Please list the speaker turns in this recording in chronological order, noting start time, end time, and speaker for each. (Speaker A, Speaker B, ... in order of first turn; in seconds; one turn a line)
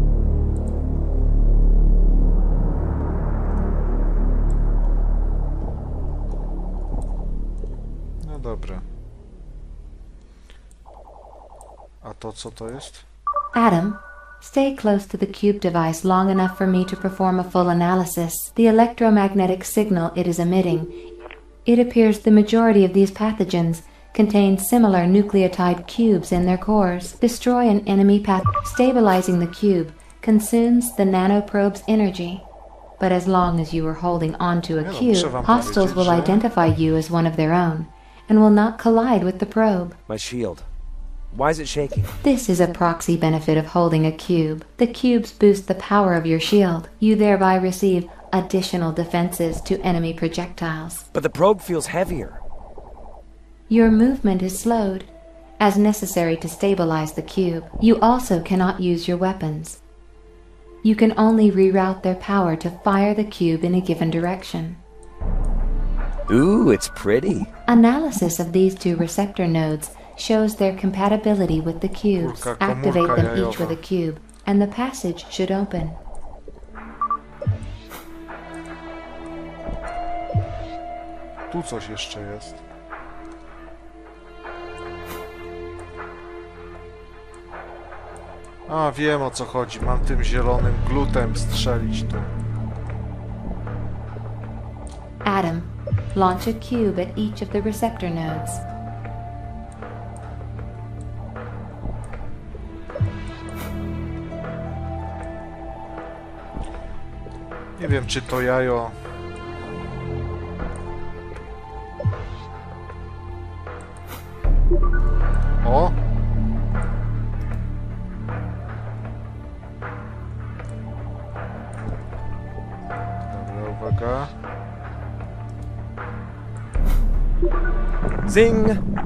Speaker A: 8.2-8.8
Speaker A: 12.0-13.0
Speaker B: 13.5-20.9
Speaker B: 21.6-32.4
Speaker B: 33.0-40.0
Speaker A: 34.8-36.4
Speaker C: 40.1-40.6
Speaker C: 41.3-42.1
Speaker B: 42.2-51.0
Speaker C: 51.1-52.4
Speaker B: 53.7-59.8
Speaker B: 60.8-64.8
Speaker C: 66.3-67.5
Speaker B: 67.7-76.0
Speaker A: 72.2-73.8
Speaker A: 81.5-82.6
Speaker A: 88.7-92.3
Speaker B: 95.2-98.6
Speaker A: 107.8-108.9
Speaker A: 115.6-116.0
Speaker A: 123.3-124.3
Speaker C: 128.3-128.8